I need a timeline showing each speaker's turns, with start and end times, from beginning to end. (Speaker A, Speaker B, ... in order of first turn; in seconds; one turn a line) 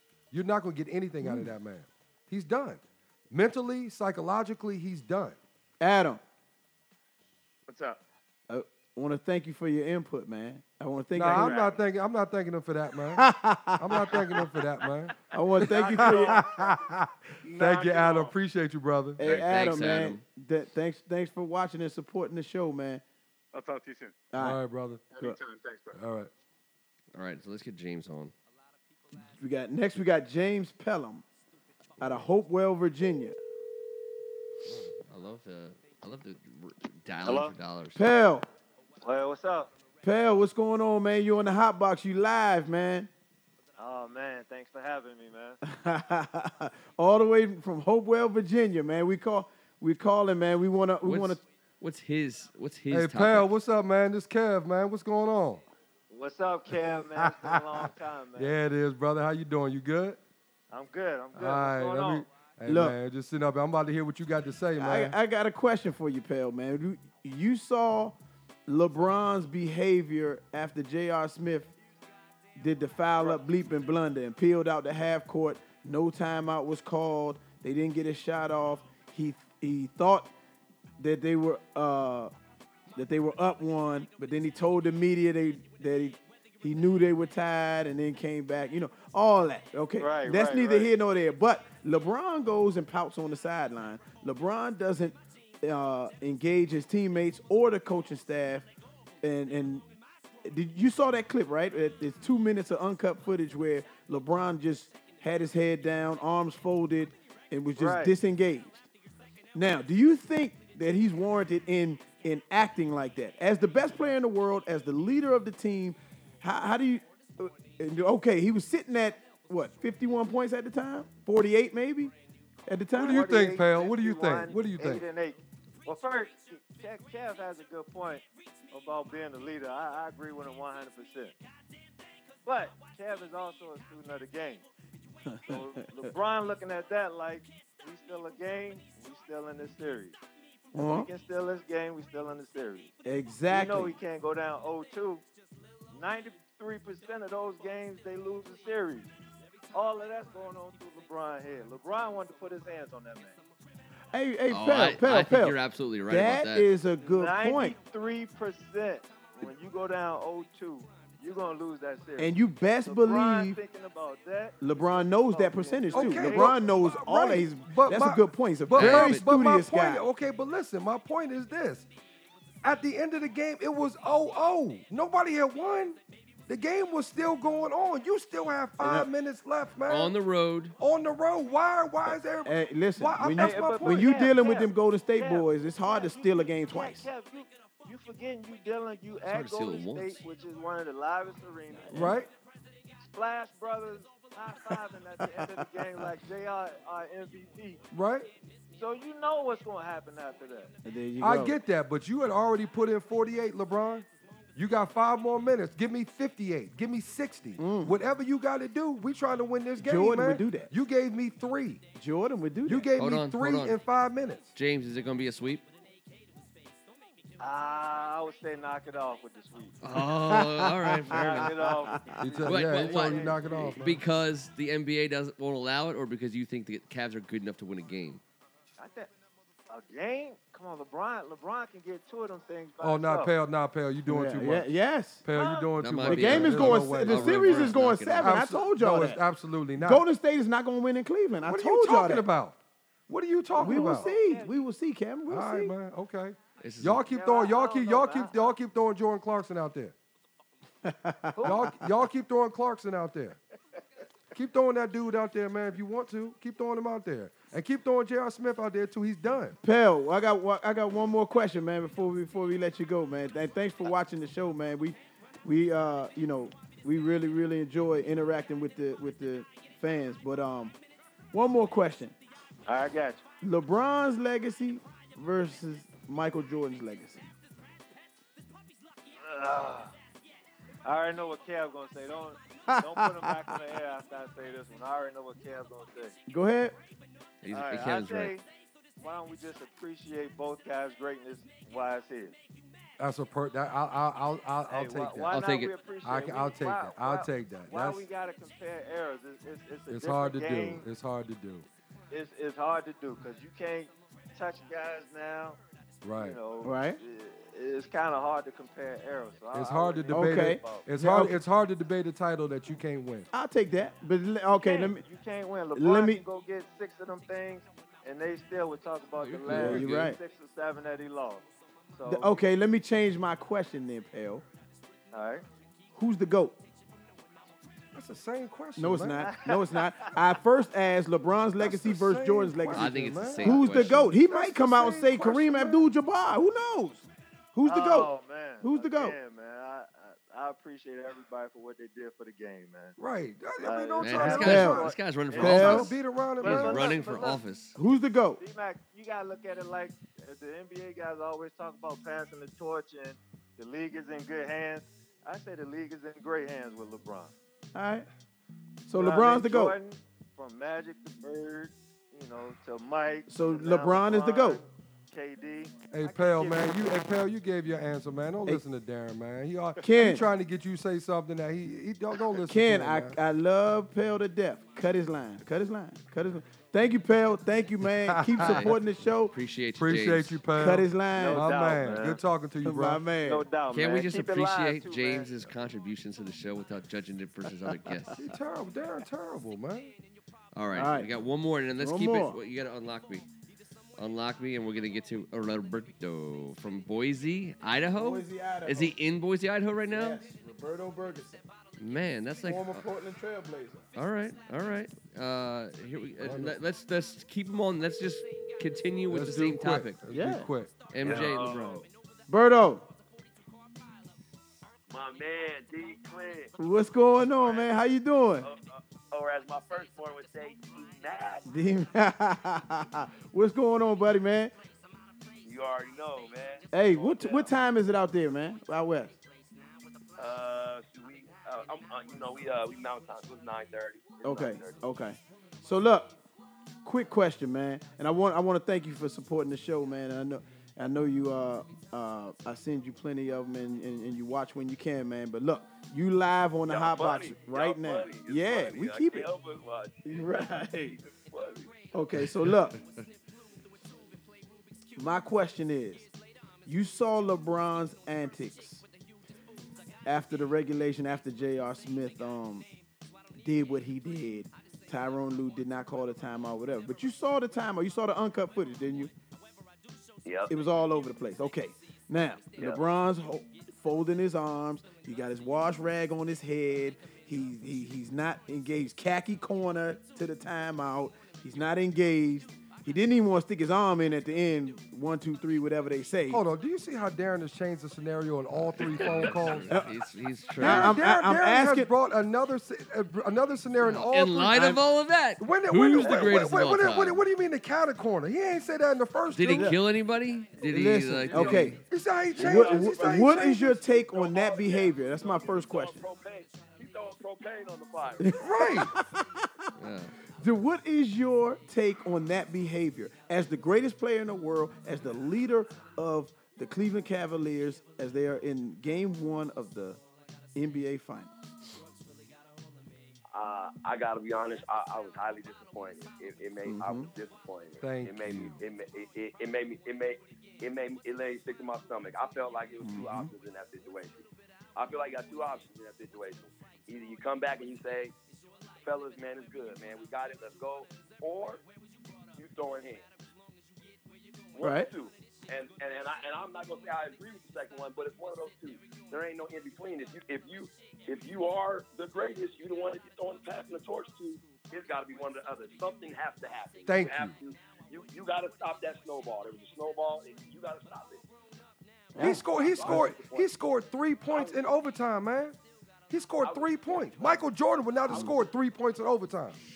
Speaker A: 0.3-5.4
Speaker B: 1.2-1.5
Speaker B: 5.8-6.2
Speaker C: 7.7-8.0
Speaker B: 8.5-11.6
Speaker A: 11.1-19.4
Speaker C: 11.2-11.8
Speaker B: 13.2-14.4
Speaker C: 14.1-14.4
Speaker B: 15.3-16.5
Speaker C: 15.6-16.8
Speaker C: 17.4-18.3
Speaker B: 19.2-23.0
Speaker D: 19.2-20.2
Speaker C: 23.5-24.2
Speaker B: 24.3-24.6
Speaker A: 24.4-25.0
Speaker C: 25.1-26.0
Speaker A: 25.9-26.3
Speaker D: 27.1-28.3
Speaker B: 29.3-31.2
Speaker B: 32.0-33.4
Speaker D: 35.0-38.0
Speaker E: 37.2-37.5
Speaker B: 38.0-38.5
Speaker E: 39.0-39.7
Speaker B: 40.0-43.1
Speaker E: 43.8-45.6
Speaker B: 45.6-51.4
Speaker D: 51.0-53.5
Speaker A: 52.9-55.6
Speaker E: 56.1-58.6
Speaker A: 57.1-60.2
Speaker E: 60.7-62.3
Speaker A: 61.3-65.2
Speaker B: 62.7-63.0
Speaker B: 64.8-71.7
Speaker B: 72.6-80.3
Speaker B: 81.0-82.3
Speaker B: 83.0-98.7
Speaker E: 90.0-90.9
Speaker B: 99.2-99.8
Speaker B: 100.4-108.8
Speaker E: 107.8-108.1
Speaker B: 109.5-122.1
Speaker B: 122.7-123.3
Speaker A: 123.0-125.0
Speaker E: 123.0-131.4
Speaker E: 132.4-134.7
Speaker B: 135.3-136.1
Speaker E: 135.5-140.2
Speaker B: 140.7-141.1
Speaker E: 140.8-142.9
Speaker B: 143.1-143.9
Speaker E: 143.5-145.2
Speaker E: 145.9-149.1
Speaker E: 149.7-153.4
Speaker B: 154.1-157.8
Speaker D: 154.5-156.7
Speaker E: 157.0-166.6
Speaker B: 162.2-163.6
Speaker B: 164.6-170.1
Speaker A: 165.9-171.9
Speaker D: 168.7-169.2
Speaker A: 172.6-180.1
Speaker B: 178.8-179.1
Speaker D: 179.9-180.8
Speaker A: 180.8-184.3
Speaker B: 182.4-187.1
Speaker E: 183.2-192.2
Speaker D: 189.3-190.2
Speaker B: 191.9-192.2
Speaker A: 191.9-192.3
Speaker E: 193.0-197.8
Speaker B: 194.7-196.1
Speaker A: 197.9-198.3
Speaker E: 198.7-200.7
Speaker B: 200.8-201.6
Speaker A: 201.2-211.8
Speaker B: 207.6-208.0
Speaker B: 209.8-210.7
Speaker B: 212.0-212.9
Speaker A: 212.7-214.5
Speaker D: 213.0-213.8
Speaker D: 214.6-215.7
Speaker E: 217.4-219.8
Speaker D: 219.8-221.6
Speaker B: 220.2-222.3
Speaker E: 221.1-223.9
Speaker A: 222.2-224.0
Speaker D: 222.4-228.2
Speaker E: 228.8-229.1
Speaker E: 229.7-233.3
Speaker A: 232.8-234.7
Speaker B: 234.1-235.3
Speaker A: 235.2-240.1
Speaker E: 235.3-235.8
Speaker D: 235.8-238.4
Speaker B: 236.0-239.2
Speaker B: 239.8-242.2
Speaker A: 241.4-244.1
Speaker E: 243.6-244.6
Speaker B: 243.6-245.7
Speaker A: 245.3-249.9
Speaker D: 246.6-247.0
Speaker E: 247.0-248.6
Speaker B: 250.8-251.8
Speaker E: 251.4-251.7
Speaker A: 251.4-253.4
Speaker A: 254.3-259.6
Speaker B: 259.6-270.8
Speaker B: 271.3-272.1
Speaker E: 272.7-273.2
Speaker B: 273.4-277.2
Speaker E: 279.2-279.9
Speaker E: 280.8-286.2
Speaker B: 282.7-283.6
Speaker B: 286.3-286.8
Speaker D: 287.4-288.4
Speaker E: 287.5-288.5
Speaker E: 289.0-292.4
Speaker A: 293.0-295.4
Speaker E: 294.7-300.9
Speaker D: 295.3-295.7
Speaker A: 296.0-298.1
Speaker A: 299.9-301.7
Speaker E: 302.1-305.6
Speaker A: 306.0-306.4
Speaker E: 306.2-310.9
Speaker B: 306.6-307.0
Speaker A: 309.5-313.3
Speaker B: 310.1-311.4
Speaker B: 313.3-315.0
Speaker E: 314.5-322.4
Speaker B: 315.8-316.2
Speaker A: 319.2-320.0
Speaker B: 319.5-320.2
Speaker B: 322.1-324.4
Speaker E: 325.1-325.4
Speaker B: 325.9-326.6
Speaker A: 327.9-329.4
Speaker B: 328.8-339.2
Speaker E: 329.2-330.3
Speaker A: 331.6-335.9
Speaker D: 332.7-334.1
Speaker E: 337.6-343.0
Speaker A: 343.0-344.9
Speaker E: 343.6-347.4
Speaker D: 344.0-347.8
Speaker B: 344.4-345.9
Speaker A: 345.4-347.1
Speaker B: 347.8-348.4
Speaker E: 348.4-357.3
Speaker B: 357.7-358.1
Speaker B: 358.9-359.8
Speaker E: 358.9-367.0
Speaker B: 363.3-364.6
Speaker A: 365.9-373.2
Speaker B: 369.8-370.2
Speaker B: 372.4-379.4
Speaker A: 377.8-378.8
Speaker D: 378.4-378.8
Speaker D: 379.3-380.4
Speaker A: 379.8-383.0
Speaker B: 380.5-381.5
Speaker E: 381.1-382.2
Speaker B: 382.6-383.5
Speaker E: 383.2-385.4
Speaker D: 383.7-388.2
Speaker A: 388.1-389.9
Speaker D: 390.5-393.3
Speaker B: 390.7-391.1
Speaker B: 391.8-392.4
Speaker D: 394.0-400.2
Speaker B: 397.9-398.9
Speaker B: 399.9-401.4
Speaker D: 401.8-402.9
Speaker B: 402.4-403.9
Speaker D: 403.9-410.0
Speaker A: 406.2-406.6
Speaker A: 409.1-410.7
Speaker B: 410.1-410.5
Speaker D: 410.9-411.9
Speaker F: 411.0-411.9
Speaker B: 412.3-412.9
Speaker F: 414.9-416.5
Speaker B: 416.6-418.5
Speaker F: 417.4-417.7
Speaker F: 418.4-421.5
Speaker B: 421.5-424.5
Speaker F: 425.4-427.5
Speaker B: 426.7-429.2
Speaker F: 430.2-434.8
Speaker B: 434.2-436.1
Speaker B: 436.9-449.3
Speaker F: 446.7-450.3
Speaker B: 450.1-451.0
Speaker F: 450.9-451.8
Speaker B: 451.9-452.8
Speaker B: 455.0-456.1
Speaker B: 456.6-458.8
Speaker B: 460.1-462.7
Speaker B: 463.4-469.1
Speaker F: 470.2-470.5
Speaker B: 470.5-486.4
Speaker F: 472.6-472.8
Speaker A: 486.3-489.8
Speaker D: 488.6-491.0
Speaker F: 488.8-489.5
Speaker B: 490.6-491.9
Speaker A: 490.6-499.8
Speaker D: 493.8-497.2
Speaker F: 496.0-496.4
Speaker D: 499.3-501.8
Speaker B: 500.6-501.8
Speaker A: 501.3-503.8
Speaker F: 502.3-508.8
Speaker B: 502.4-506.0
Speaker B: 508.2-509.5
Speaker A: 508.4-508.9
Speaker D: 509.8-510.1
Speaker B: 510.4-520.0
Speaker B: 520.5-521.3
Speaker F: 523.3-538.1
Speaker B: 526.6-527.1
Speaker A: 527.8-528.6
Speaker B: 532.8-533.3
Speaker F: 538.8-541.6
Speaker F: 542.4-543.1
Speaker F: 544.5-561.2
Speaker B: 544.6-544.9
Speaker A: 556.9-557.4
Speaker B: 562.1-563.0
Speaker A: 562.2-565.6
Speaker F: 562.2-563.5
Speaker F: 564.3-564.6
Speaker A: 566.1-569.6
Speaker F: 566.4-567.4
Speaker F: 568.1-568.4